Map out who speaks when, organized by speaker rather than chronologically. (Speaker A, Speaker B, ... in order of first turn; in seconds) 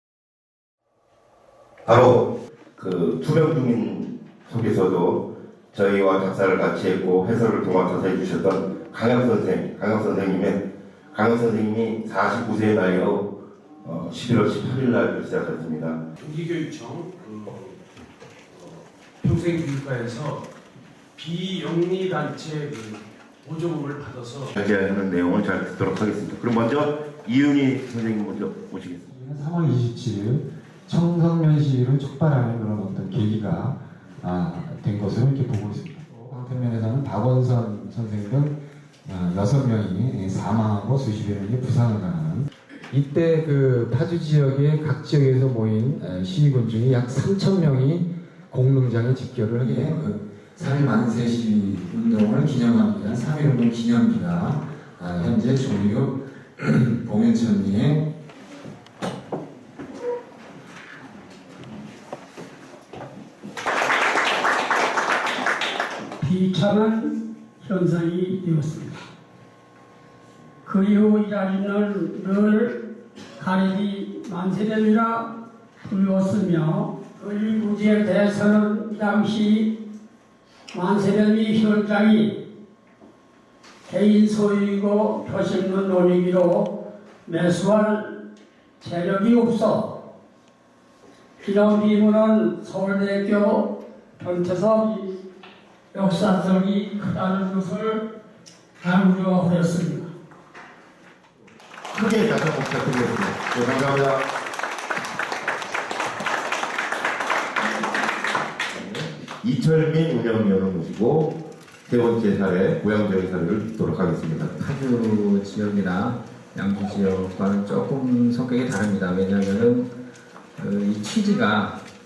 Speaker A: 1.9-16.0, 24.5-29.1, 101.9-104.3, 108.9-114.6
Speaker B: 16.2-17.8, 18.5-20.5, 21.1-24.5
Speaker C: 29.1-58.1
Speaker D: 66.2-69.0, 70.6-79.8, 80.7-82.4, 83.9-88.2, 88.8-90.0, 91.4-95.2, 95.9-98.1, 98.8-100.1
Speaker E: 114.6-120.0, 120.6-121.8